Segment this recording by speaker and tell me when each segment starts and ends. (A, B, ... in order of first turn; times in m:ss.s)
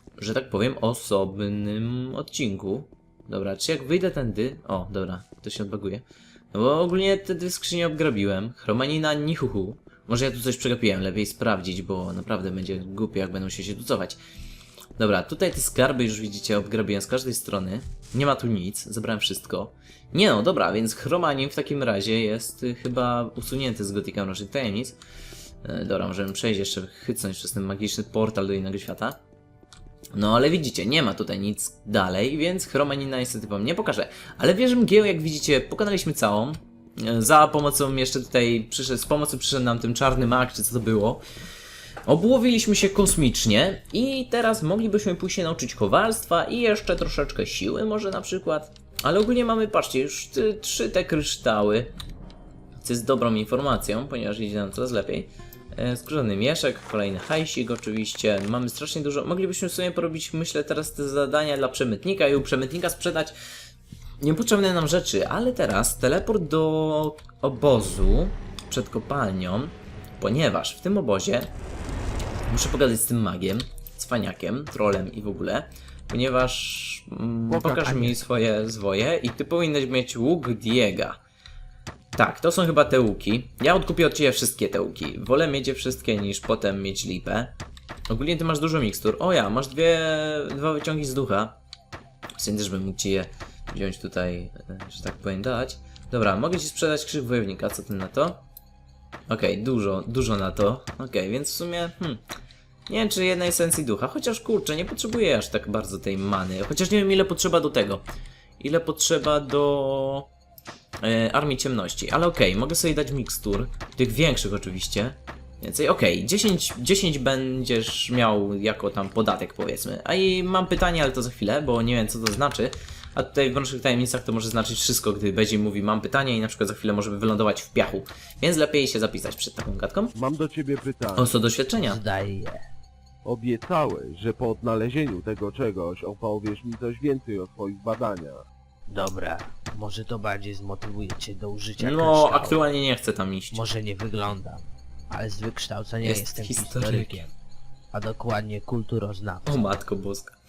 0:00.2-0:14.2 A
0:15.0-0:25.0 A
0:25.6-0:29.2 A
0:30.1-0:41.2 A
0:42.1-0:51.9 A
0:52.8-1:03.4 A
1:04.2-1:11.5 A
1:12.5-1:21.2 A
1:17.6-1:18.2 B
1:17.6-1:18.0 C
1:22.2-1:27.5 A
1:28.1-1:31.6 A
1:32.4-1:38.4 A
1:39.3-1:42.2 A
1:42.9-1:48.0 A
1:48.6-1:50.3 A
1:51.0-2:10.1 A
2:10.2-2:11.3 C
2:11.2-2:12.0 A
2:11.8-2:12.6 B
2:13.2-2:18.4 C
2:18.9-2:22.6 B
2:21.8-2:23.6 A
2:23.5-2:27.3 B
2:26.0-2:27.2 A
2:27.9-2:29.6 B
2:29.5-2:30.4 A